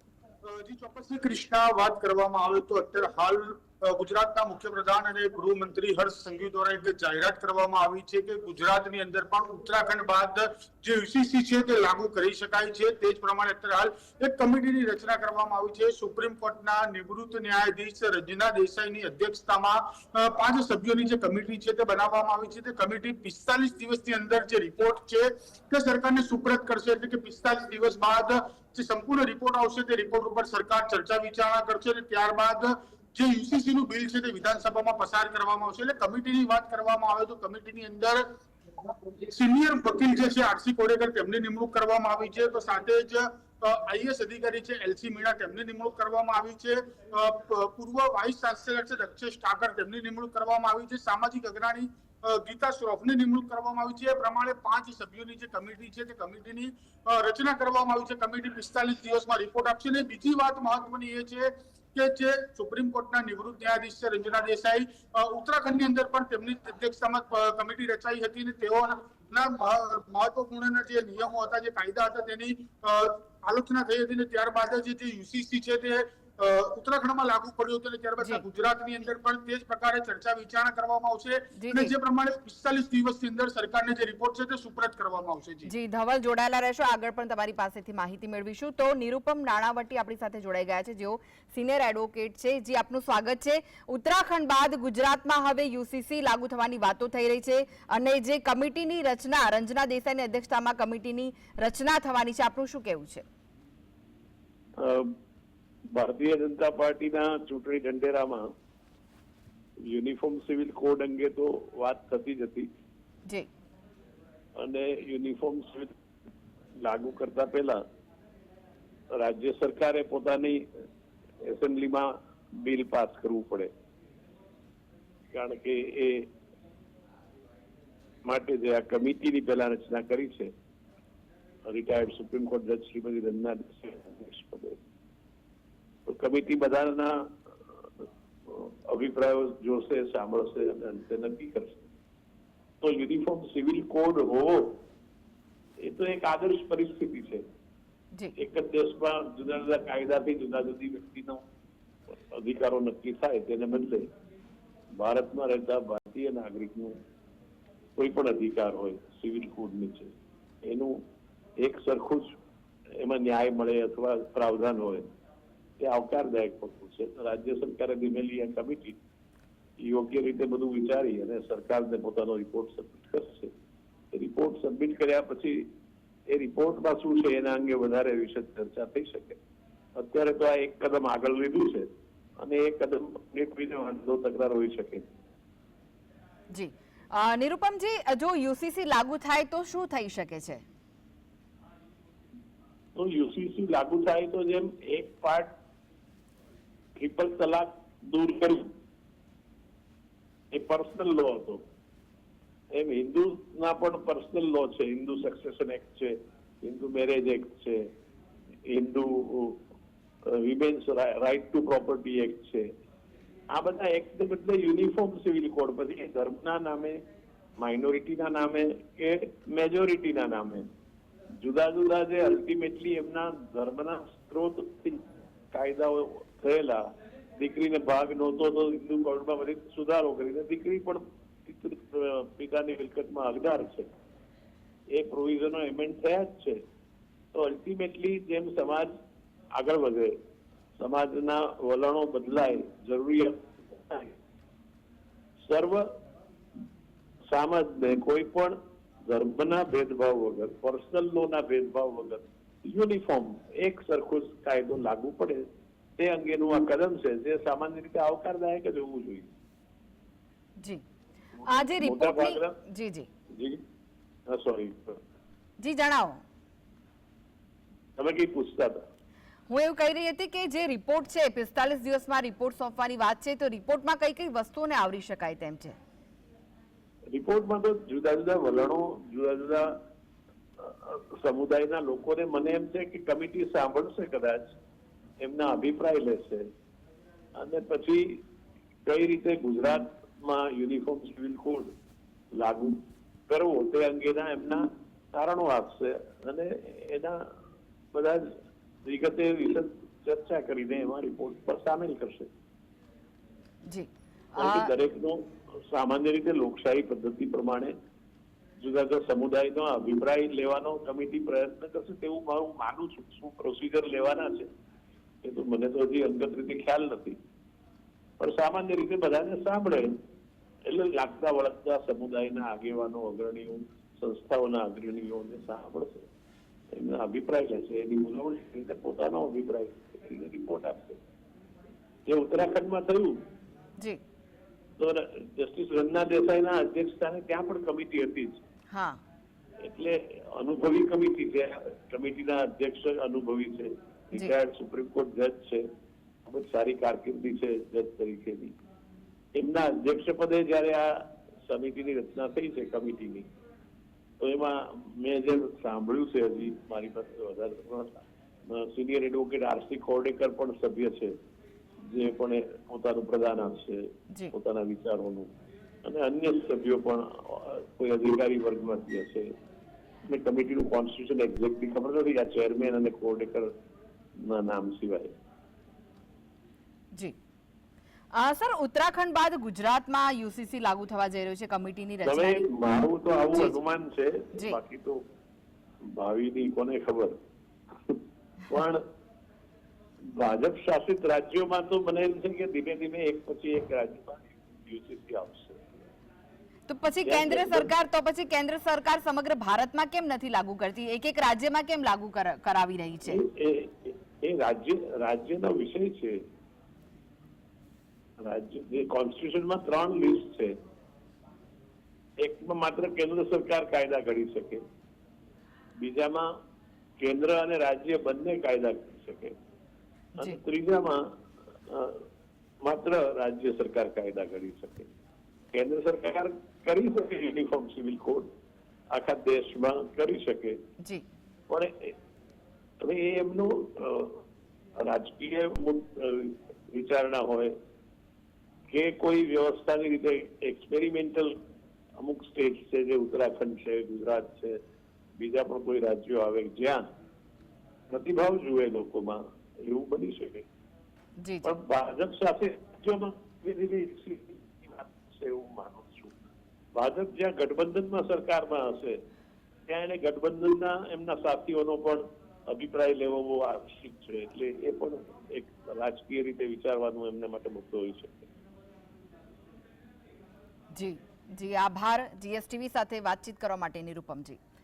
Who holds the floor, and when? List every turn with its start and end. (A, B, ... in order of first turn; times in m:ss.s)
0:00.5-0:38.2 A
0:38.9-1:25.7 A
1:21.6-1:21.9 B
1:25.7-1:43.2 B
1:44.8-1:45.1 C
1:45.9-1:48.5 C
1:49.8-1:52.7 C
1:54.6-1:55.9 C
1:56.8-1:57.8 C
1:59.1-2:00.7 C
2:01.4-2:03.7 C
2:05.3-2:06.3 C
2:08.2-2:10.5 C
2:11.7-2:14.8 C
2:16.1-2:17.9 C
2:18.5-2:21.9 C
2:22.8-2:24.8 C
2:25.8-2:27.4 C
2:28.4-2:31.4 C
2:32.3-2:34.1 C
2:34.9-2:37.0 C
2:38.0-2:41.0 C
2:41.6-2:42.3 C
2:43.0-2:45.1 C
2:45.8-2:49.0 C
2:49.8-2:53.5 C
2:54.1-2:55.7 C
2:56.3-2:59.4 C
3:00.0-3:05.1 C
3:06.5-3:10.6 B
3:13.0-3:15.5 C
3:17.0-3:18.7 C
3:20.5-3:21.6 C
3:22.7-3:27.9 C
3:28.7-3:29.6 C
3:30.3-3:32.7 C
3:33.5-3:37.0 C
3:37.6-3:40.7 C
3:41.4-3:46.8 C
3:47.4-3:53.9 C
3:54.9-3:56.6 C
3:57.3-3:58.9 C
3:59.5-4:00.2 C
4:00.8-4:04.2 C
4:05.4-4:06.0 C
4:07.3-4:15.5 C
4:16.0-4:19.3 C
4:21.4-4:22.6 C
4:21.4-4:23.1 B
4:23.3-4:23.6 C
4:24.3-4:25.0 C
4:25.6-4:26.2 B
4:28.0-4:28.8 C
4:29.5-4:35.8 B
4:37.1-4:39.8 C
4:40.6-4:44.4 C
4:45.2-4:46.5 C
4:47.4-4:48.2 C
4:48.9-4:51.7 C
4:52.3-4:57.3 C
4:57.9-4:58.3 C
4:58.8-5:02.3 C
5:03.7-5:04.7 B
5:04.4-5:07.7 C
5:08.6-5:14.5 C
5:15.2-5:17.2 C
5:18.2-5:20.0 C
5:20.6-5:26.1 C
5:26.7-5:31.0 C
5:32.1-5:33.3 C
5:34.8-5:38.4 C
5:38.7-5:39.0 B
5:39.6-5:45.7 C
5:46.3-5:48.6 C
5:49.4-5:53.3 C
5:54.2-6:01.1 C
6:01.9-6:05.3 C
6:05.8-6:09.3 C
6:10.1-6:13.5 C
6:14.2-6:15.1 C
6:18.1-6:22.5 B
6:22.0-6:25.0 C
6:25.8-6:27.2 C
6:28.5-6:28.8 C
6:30.1-6:35.7 C
6:36.7-6:43.2 B
6:37.0-6:37.7 C
6:43.1-6:46.2 C
6:48.2-6:50.6 C
6:52.2-6:54.6 C
6:55.8-6:56.3 C
6:57.0-6:59.4 C
7:00.2-7:01.0 C
7:01.7-7:02.1 C
7:02.6-7:04.9 C
7:05.5-7:08.3 C
7:08.9-7:10.6 C
7:11.5-7:11.9 C
7:12.8-7:14.2 C
7:14.8-7:17.6 C
7:18.7-7:21.4 C
7:22.0-7:24.6 C
7:25.2-7:26.9 C
7:27.9-7:30.5 C
7:31.2-7:31.5 B
7:31.4-7:39.0 C
7:39.7-7:48.3 C
7:50.7-7:54.4 B